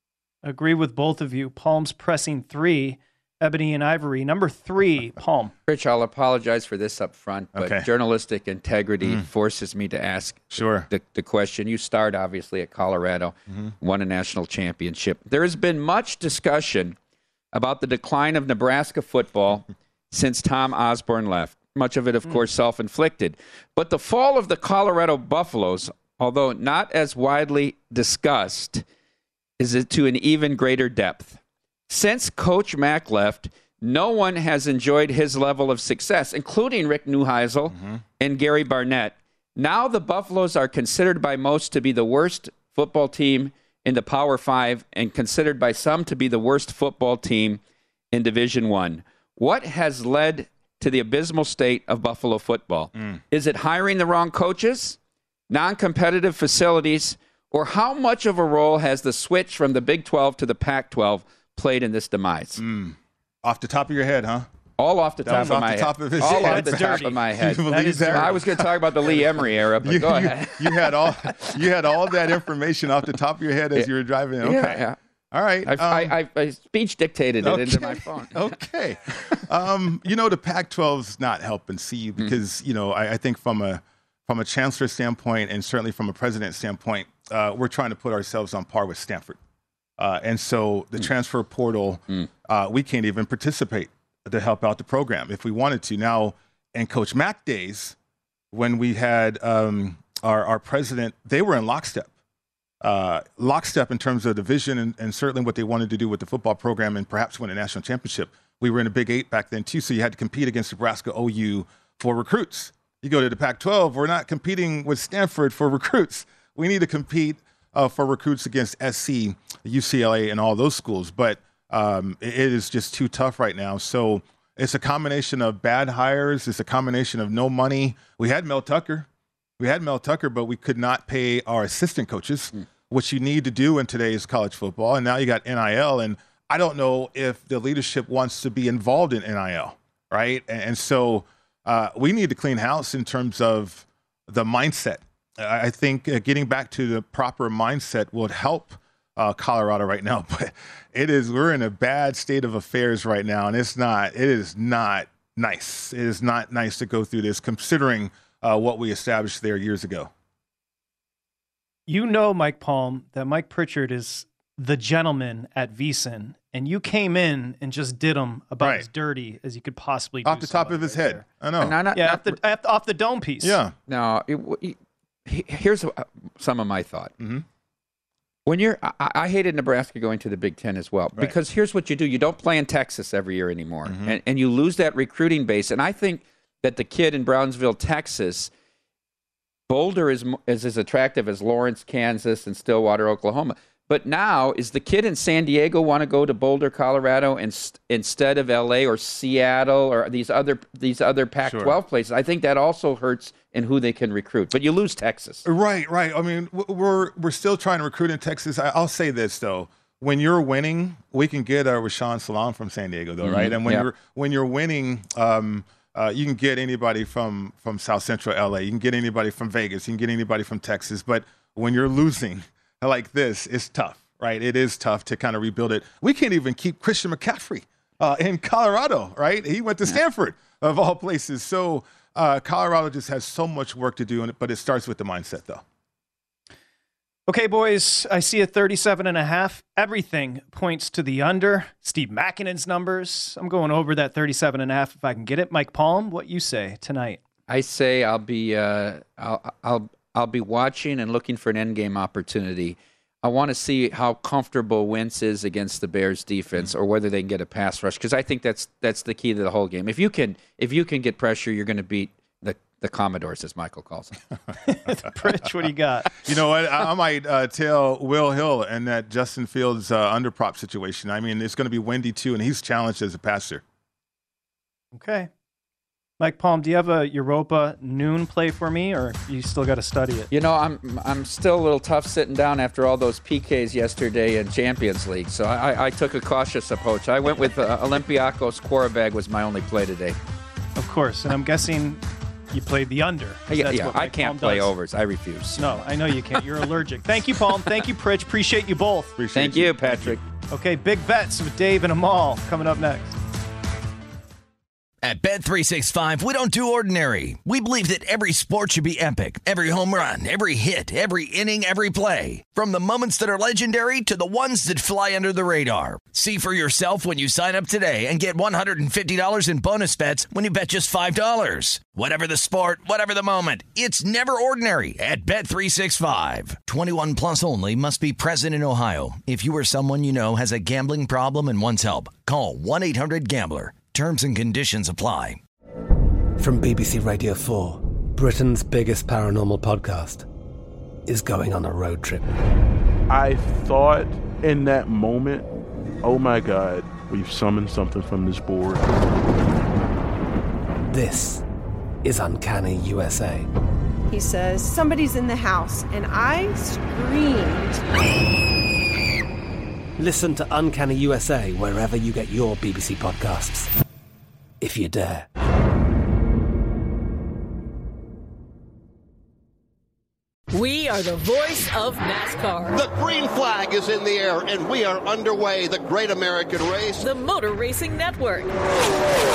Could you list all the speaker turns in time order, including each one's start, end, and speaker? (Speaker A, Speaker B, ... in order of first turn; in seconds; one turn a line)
Speaker A: 0.4-5.5
Speaker B: 5.7-16.9
Speaker C: 7.5-7.9
Speaker C: 9.0-9.3
Speaker C: 10.5-10.9
Speaker B: 17.5-28.8
Speaker B: 29.6-47.6
Speaker C: 37.7-38.0
Speaker B: 48.1-55.0
Speaker B: 55.5-62.6
Speaker C: 62.6-64.5
Speaker B: 64.8-71.3
Speaker C: 65.2-76.2
Speaker A: 65.3-65.6
Speaker A: 66.2-68.4
Speaker B: 74.4-75.0
Speaker B: 75.6-78.5
Speaker C: 77.4-89.4
Speaker C: 90.0-98.0
Speaker C: 98.5-102.1
Speaker C: 102.8-129.1
Speaker C: 129.6-160.1
Speaker A: 161.9-171.2
Speaker C: 168.6-168.8
Speaker C: 170.2-171.8
Speaker B: 171.6-172.3
Speaker A: 171.9-173.6
Speaker C: 173.4-173.8
Speaker B: 173.8-177.1
Speaker C: 177.2-177.4
Speaker B: 178.4-188.5
Speaker C: 183.8-184.2
Speaker B: 189.7-205.4
Speaker C: 201.4-201.8
Speaker C: 205.4-235.6
Speaker B: 213.2-213.9
Speaker A: 237.3-247.2
Speaker B: 247.5-264.2
Speaker A: 264.6-266.2
Speaker C: 266.2-273.6
Speaker A: 274.9-275.3
Speaker A: 276.2-280.3
Speaker B: 280.3-290.1
Speaker A: 290.8-294.7
Speaker B: 293.5-295.6
Speaker A: 295.6-299.1
Speaker C: 299.1-300.2
Speaker B: 299.3-300.2
Speaker A: 300.5-303.1
Speaker D: 305.0-335.4
Speaker E: 336.4-340.2
Speaker E: 341.1-342.3
Speaker F: 343.1-345.5
Speaker F: 346.0-348.9
Speaker E: 350.9-351.4
Speaker E: 352.0-353.5
Speaker G: 354.1-357.8
Speaker E: 360.0-363.7
Speaker E: 364.6-365.3
Speaker H: 370.5-372.8
Speaker I: 372.7-377.1
Speaker H: 377.0-378.5